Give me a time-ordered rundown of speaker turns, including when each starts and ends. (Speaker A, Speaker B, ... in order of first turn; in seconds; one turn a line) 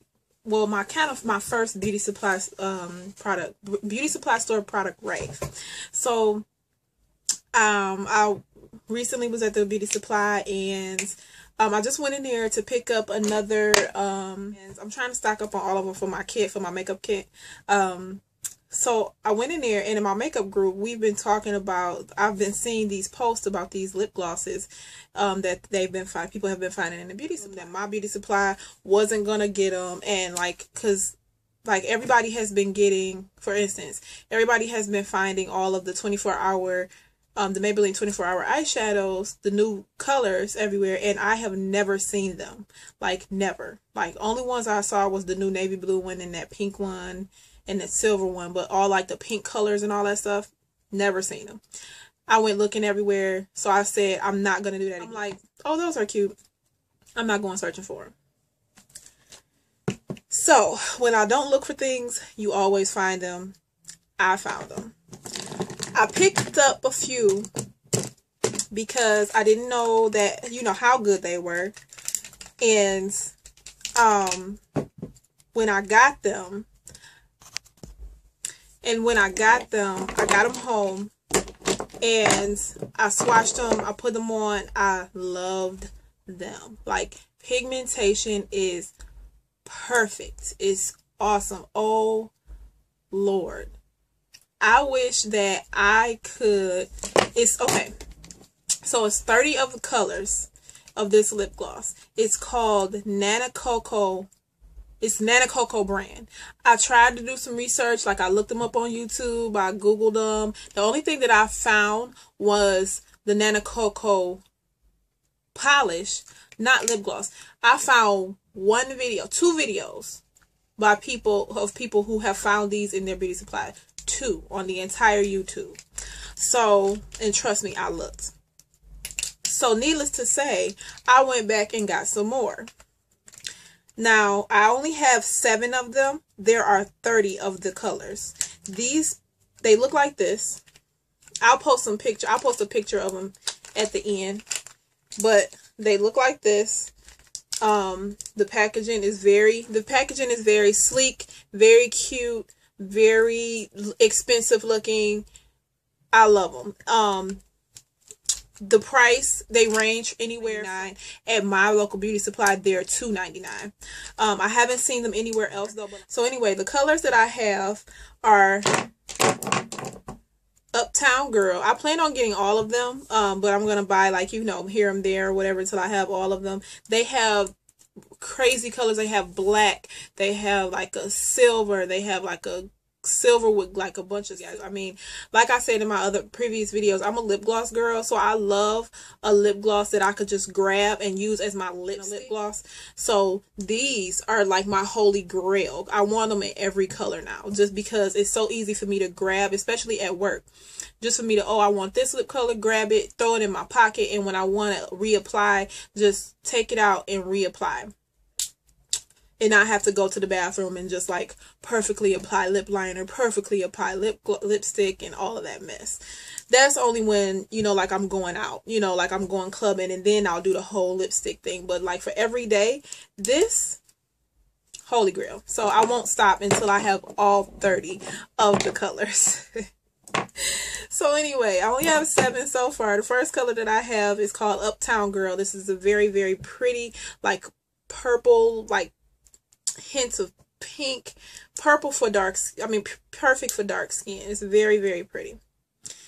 Speaker A: 0.5-6.5
Speaker A: 7.5-51.6
Speaker A: 52.3-56.4
Speaker A: 57.2-58.1
Speaker A: 60.3-63.6
Speaker A: 64.2-65.0
Speaker A: 65.9-67.5
Speaker A: 68.7-71.8
Speaker A: 72.6-73.3
Speaker A: 74.0-74.6
Speaker A: 75.5-76.7
Speaker A: 78.8-81.1
Speaker A: 82.0-88.9
Speaker A: 89.7-92.3
Speaker A: 93.1-93.8
Speaker A: 94.6-97.9
Speaker A: 98.8-104.3
Speaker A: 105.0-114.4
Speaker A: 115.5-120.2
Speaker A: 120.8-125.8
Speaker A: 126.4-128.3
Speaker A: 129.4-132.7
Speaker A: 134.0-140.6
Speaker A: 141.4-144.4
Speaker A: 145.2-146.9
Speaker A: 147.6-155.3
Speaker A: 156.1-157.4
Speaker A: 158.6-168.8
Speaker A: 170.7-177.6
Speaker A: 178.2-200.5
Speaker A: 201.0-207.9
Speaker A: 209.4-223.8
Speaker A: 224.9-229.6
Speaker A: 230.4-238.9
Speaker A: 239.8-245.4